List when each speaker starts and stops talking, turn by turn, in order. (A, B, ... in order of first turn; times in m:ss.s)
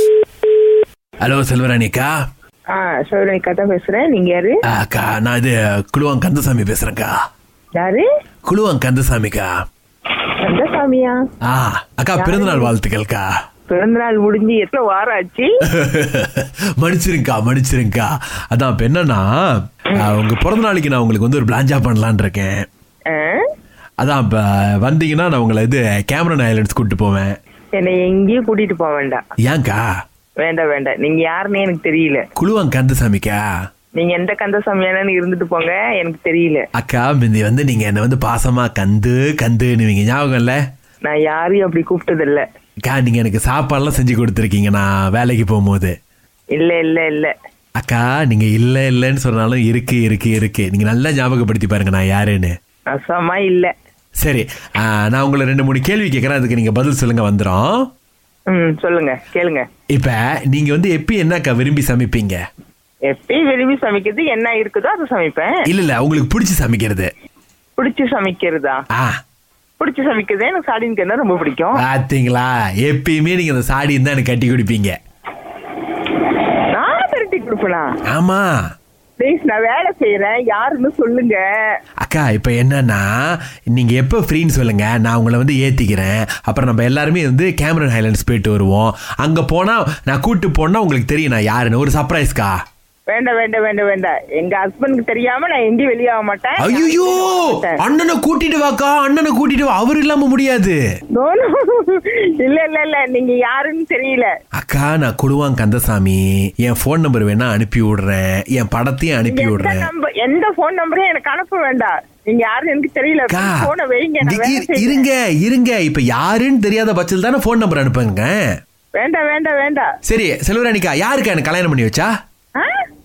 0:01.2-0:02.1 A
0:02.7-0:04.6 B
0:04.7-0:07.2 A
0:07.8-0:08.1 B
0:08.5-0:09.5 A
0:10.2-0:11.2 B
0:11.4-0:13.3 A
0:12.2-0:12.7 B
0:13.7-0:15.5 B
0:15.7-0:22.6 A
0:23.1-0:23.4 B
0:24.0-0:27.3 A
0:27.7-0:29.2 B
0:29.4-0:29.8 A
0:30.4-0:32.2 B
0:32.4-0:33.4 A
0:34.0-0:36.7 B
0:36.7-0:40.6 A
0:41.0-0:42.4 B
0:42.8-0:45.9 A
0:46.6-0:47.3 B
0:47.8-0:52.6 A
0:52.9-0:53.7 B
0:54.2-0:57.9 A
0:58.5-0:59.6 B
0:59.9-1:02.4 A
1:03.0-1:05.6 B
1:05.7-1:07.1 A
1:07.8-1:08.8 B
1:09.8-1:11.8 B
1:11.8-1:14.9 A
1:16.7-1:18.0 B
1:18.1-1:18.5 A
1:19.2-1:21.5 B
1:22.0-1:32.5 A
1:33.1-1:37.8 B
1:36.6-1:40.8 A
1:41.2-1:44.3 B
1:44.6-1:49.8 A
1:49.3-1:55.1 B
1:53.3-1:53.7 A
1:54.2-1:58.4 A
1:59.0-1:59.9 B
2:00.1-2:02.1 A